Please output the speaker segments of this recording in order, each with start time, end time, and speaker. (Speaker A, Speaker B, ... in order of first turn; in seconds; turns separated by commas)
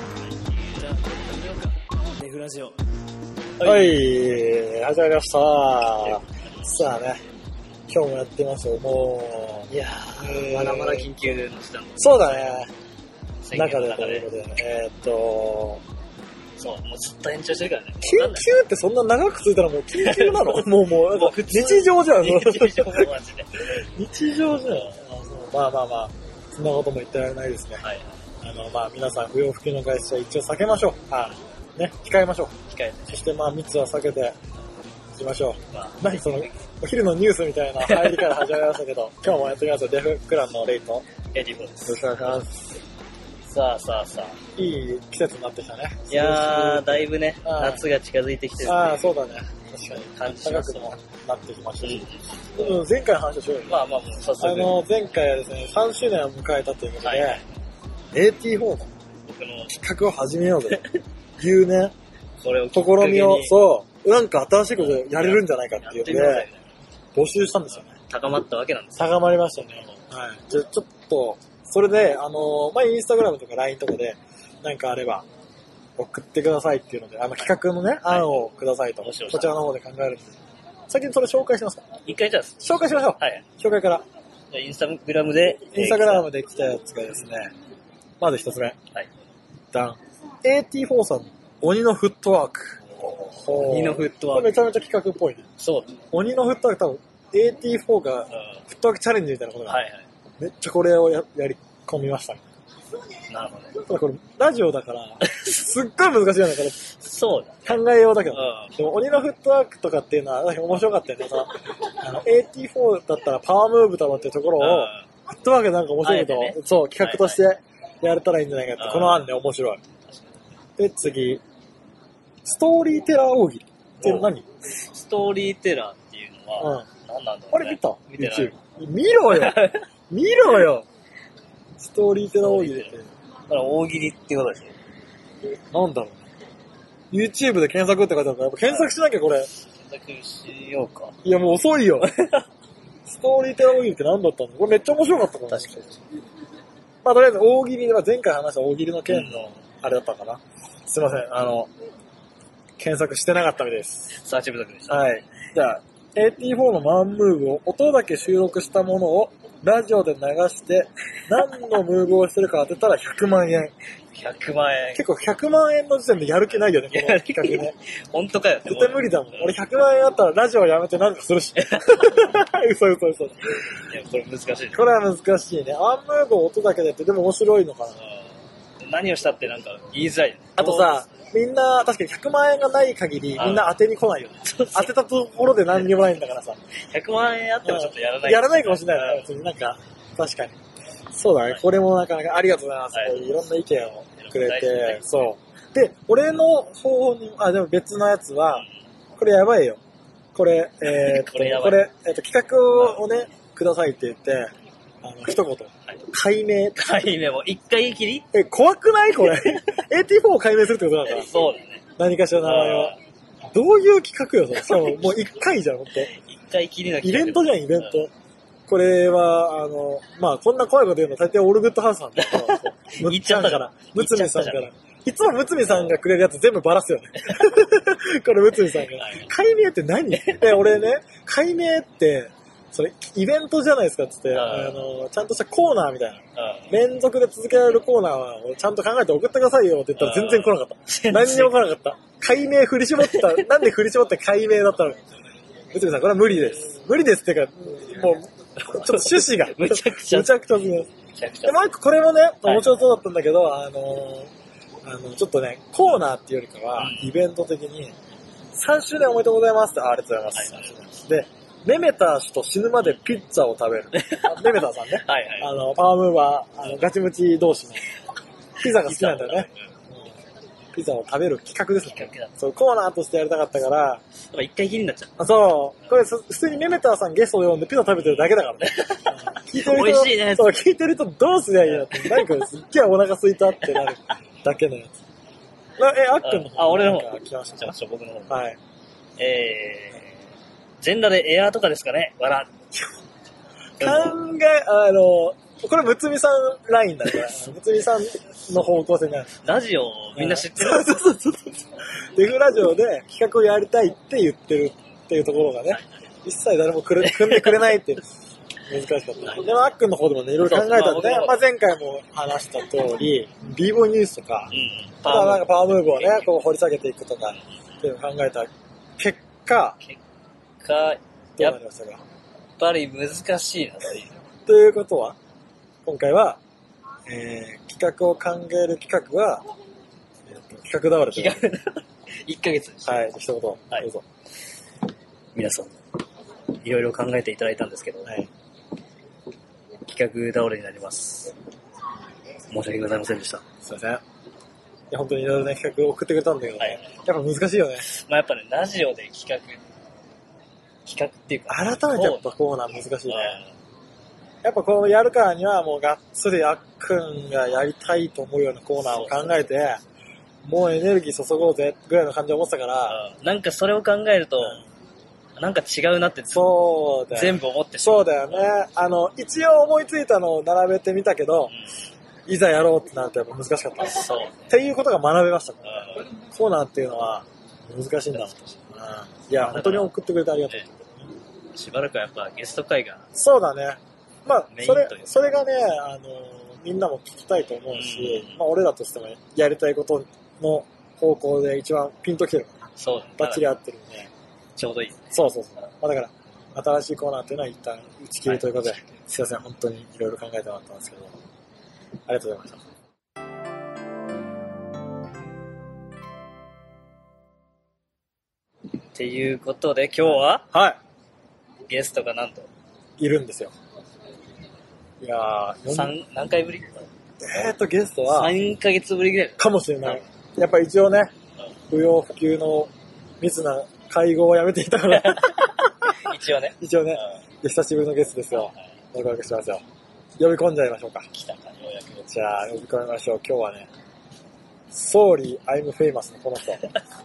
Speaker A: 0.8-2.8, Speaker A: 3.6-4.0, Speaker B: 3.6-7.2, Speaker B: 7.9-11.4, Speaker A: 9.7-12.6, Speaker B: 12.0-12.7, Speaker A: 13.4-14.3, Speaker B: 13.5-15.8, Speaker A: 16.6-18.5, Speaker B: 18.0-23.1, Speaker A: 19.9-23.8, Speaker B: 23.7-27.8, Speaker A: 24.7-25.0, Speaker A: 27.8-28.2, Speaker B: 28.4-32.6, Speaker A: 32.7-33.2, Speaker B: 33.1-34.4, Speaker B: 35.1-41.1, Speaker A: 35.7-36.5, Speaker A: 37.8-38.5, Speaker A: 41.3-42.0, Speaker B: 41.8-42.8, Speaker A: 43.5-44.4, Speaker B: 44.6-47.8, Speaker A: 46.1-49.1, Speaker B: 48.7-53.8, Speaker A: 50.2-50.9, Speaker A: 51.8-52.9, Speaker A: 53.7-54.8, Speaker B: 54.4-57.4, Speaker A: 57.0-57.4, Speaker B: 58.1-58.9, Speaker A: 59.3-59.7, Speaker B: 59.7-61.9, Speaker A: 62.4-63.6, Speaker B: 62.7-66.5, Speaker A: 64.8-66.6, Speaker B: 67.2-68.0, Speaker A: 67.9-70.0, Speaker B: 69.0-75.2, Speaker B: 76.0-80.4, Speaker A: 78.1-78.5, Speaker A: 79.0-79.6, Speaker B: 80.9-81.9, Speaker A: 82.1-83.4, Speaker B: 82.6-84.0, Speaker A: 84.5-86.3, Speaker B: 85.7-87.5, Speaker B: 88.2-88.8, Speaker B: 89.7-95.5, Speaker A: 93.5-94.6, Speaker A: 95.6-96.0, Speaker B: 96.1-99.8, Speaker A: 98.3-98.6, Speaker A: 99.7-100.0, Speaker B: 100.4-102.4, Speaker A: 103.3-103.8, Speaker B: 103.8-106.9, Speaker A: 105.3-105.5, Speaker A: 107.0-108.7, Speaker B: 107.7-119.8, Speaker A: 114.6-115.0, Speaker A: 116.0-117.4, Speaker A: 118.8-119.3, Speaker A: 120.1-120.4, Speaker B: 120.8-121.4, Speaker B: 122.4-124.5, Speaker A: 124.0-128.5, Speaker B: 126.6-126.9, Speaker B: 127.5-130.9, Speaker A: 129.3-129.9, Speaker B: 131.8-133.1, Speaker A: 132.4-132.9, Speaker A: 133.5-134.7, Speaker B: 135.7-136.2, Speaker B: 137.1-139.5, Speaker A: 139.8-141.2, Speaker B: 141.2-142.1, Speaker A: 142.2-142.4, Speaker B: 143.1-145.9, Speaker A: 145.5-145.9, Speaker B: 147.0-151.7, Speaker A: 149.1-149.5, Speaker B: 152.8-154.2, Speaker A: 154.2-155.0, Speaker B: 154.9-163.7, Speaker A: 164.2-165.1, Speaker B: 164.9-167.8, Speaker A: 166.7-169.6, Speaker B: 168.7-173.5, Speaker A: 171.6-172.3, Speaker A: 173.9-174.9, Speaker B: 174.7-178.0, Speaker A: 178.8-181.0, Speaker B: 180.6-186.6, Speaker A: 183.4-183.7, Speaker A: 184.5-184.9, Speaker A: 186.9-189.3, Speaker B: 187.7-190.6, Speaker B: 191.1-198.7, Speaker A: 192.9-193.5, Speaker A: 194.2-195.1, Speaker B: 199.2-199.8, Speaker B: 200.3-204.5, Speaker A: 200.9-201.9, Speaker B: 205.0-206.8, Speaker A: 206.8-208.3, Speaker B: 208.3-211.3, Speaker A: 209.3-209.6, Speaker A: 211.1-211.8, Speaker B: 212.0-213.0, Speaker A: 212.4-212.9, Speaker B: 213.5-216.1, Speaker A: 214.6-215.1, Speaker A: 215.9-218.0, Speaker B: 217.0-218.1, Speaker B: 218.7-245.0, Speaker A: 222.2-224.7, Speaker A: 229.0-229.3, Speaker A: 230.1-230.8, Speaker A: 234.3-234.9, Speaker A: 236.4-236.7, Speaker A: 240.0-241.6, Speaker A: 243.0-243.6, Speaker B: 245.7-250.9, Speaker A: 248.7-250.3, Speaker A: 251.2-251.7, Speaker B: 251.4-254.3, Speaker A: 252.4-252.8, Speaker B: 254.8-257.9, Speaker A: 256.8-257.1, Speaker B: 258.5-267.9, Speaker A: 264.0-265.5, Speaker B: 268.6-269.5, Speaker A: 268.7-269.6, Speaker B: 270.7-274.0, Speaker A: 271.9-272.3, Speaker A: 274.3-275.2, Speaker B: 275.2-284.9, Speaker A: 278.6-280.6, Speaker A: 281.6-282.4, Speaker A: 283.6-283.9, Speaker B: 285.8-287.8, Speaker A: 286.2-288.4, Speaker B: 288.3-288.6, Speaker A: 289.2-290.1, Speaker A: 290.8-292.5, Speaker A: 293.8-294.2, Speaker B: 293.8-299.3, Speaker A: 299.4-301.0, Speaker B: 300.2-301.6, Speaker B: 302.2-308.1, Speaker A: 307.1-307.7, Speaker B: 308.7-314.5, Speaker A: 310.4-311.4, Speaker A: 314.5-316.3, Speaker B: 315.0-319.8, Speaker A: 320.6-321.6, Speaker B: 321.4-322.0, Speaker A: 322.6-324.2, Speaker B: 324.5-325.2, Speaker B: 325.9-326.4, Speaker B: 327.1-329.4, Speaker B: 330.3-331.5, Speaker A: 331.1-333.2, Speaker B: 332.9-334.0, Speaker A: 335.4-335.7, Speaker A: 336.6-338.1, Speaker A: 339.8-341.4, Speaker A: 342.5-343.4, Speaker B: 343.6-344.0, Speaker B: 344.9-347.9, Speaker A: 347.9-349.6, Speaker A: 350.9-352.3, Speaker B: 351.5-353.4, Speaker A: 353.1-353.5, Speaker B: 354.4-359.8, Speaker A: 358.9-359.5, Speaker B: 360.4-363.0, Speaker A: 362.9-364.6, Speaker A: 365.4-366.6, Speaker B: 366.3-371.5, Speaker A: 367.1-368.5, Speaker B: 372.3-381.0, Speaker A: 373.9-374.5, Speaker A: 375.7-376.1, Speaker A: 378.1-378.6, Speaker A: 379.4-379.9, Speaker A: 381.5-383.1, Speaker B: 383.1-392.6, Speaker A: 384.5-385.4, Speaker A: 387.7-388.4, Speaker A: 392.8-393.5, Speaker B: 393.2-394.1, Speaker A: 394.6-395.1, Speaker B: 395.1-401.1, Speaker A: 398.3-399.0, Speaker B: 402.1-402.6, Speaker A: 408.9-410.5, Speaker B: 410.1-410.8, Speaker A: 411.7-412.5, Speaker B: 413.0-413.5, Speaker B: 415.0-416.0, Speaker A: 415.7-416.9, Speaker B: 417.2-418.4, Speaker A: 418.1-420.0, Speaker B: 419.4-421.1, Speaker B: 421.7-426.0, Speaker A: 424.9-427.1, Speaker B: 426.6-429.6, Speaker B: 430.2-431.1, Speaker A: 431.1-432.1, Speaker B: 432.1-433.7, Speaker B: 434.7-436.7